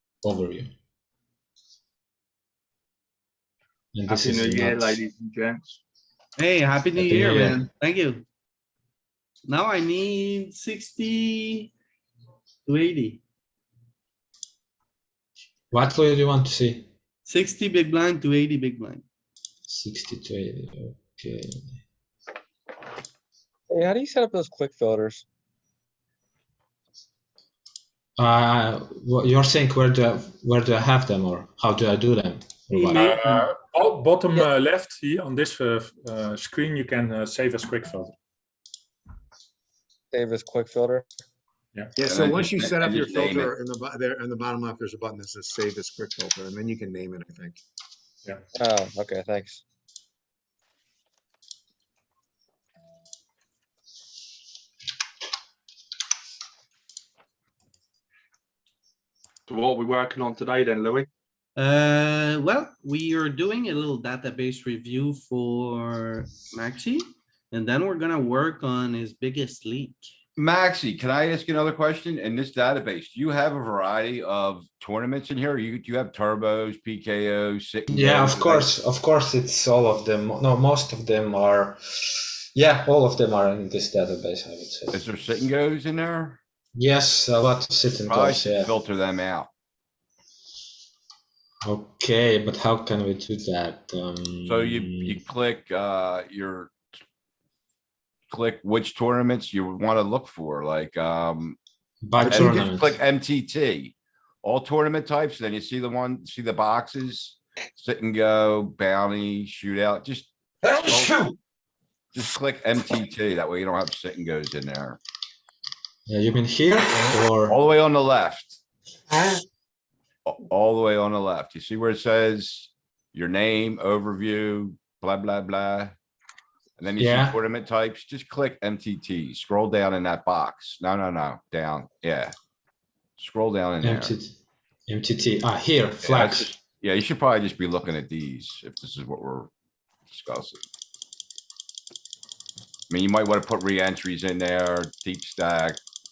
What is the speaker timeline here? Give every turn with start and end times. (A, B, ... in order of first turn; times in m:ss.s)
0:00.2-0:00.7 A
0:03.9-0:05.0 A
0:04.1-0:05.8 B
0:06.4-0:08.2 C
0:06.9-0:07.6 A
0:09.4-0:11.7 C
0:12.6-0:13.2 C
0:15.7-0:16.9 A
0:17.2-0:19.0 C
0:19.7-0:21.6 A
0:23.7-0:25.2 D
0:28.2-0:33.1 A
0:32.7-0:33.5 C
0:32.9-0:38.1 E
0:40.1-0:41.1 D
0:41.9-0:47.6 F
0:42.0-0:43.5 G
0:48.5-0:49.6 D
0:59.5-1:01.1 B
1:01.6-1:10.1 C
1:10.4-1:18.7 G
1:17.9-1:25.0 A
1:24.9-1:26.4 G
1:26.8-1:28.7 A
1:28.1-1:29.5 G
1:31.6-1:35.2 A
1:34.4-1:36.7 G
1:38.3-1:41.6 G
1:42.0-1:43.0 A
1:42.2-1:42.7 F
1:42.3-1:51.3 G
1:52.1-1:55.0 G
1:56.1-1:57.6 A
1:57.5-1:58.6 G
2:00.2-2:06.0 G
2:06.8-2:12.4 G
2:07.0-2:07.4 A
2:13.2-2:14.1 G
2:13.8-2:14.3 A
2:14.9-2:16.5 A
2:16.0-2:19.5 G
2:20.1-2:20.6 G
2:22.9-2:25.8 G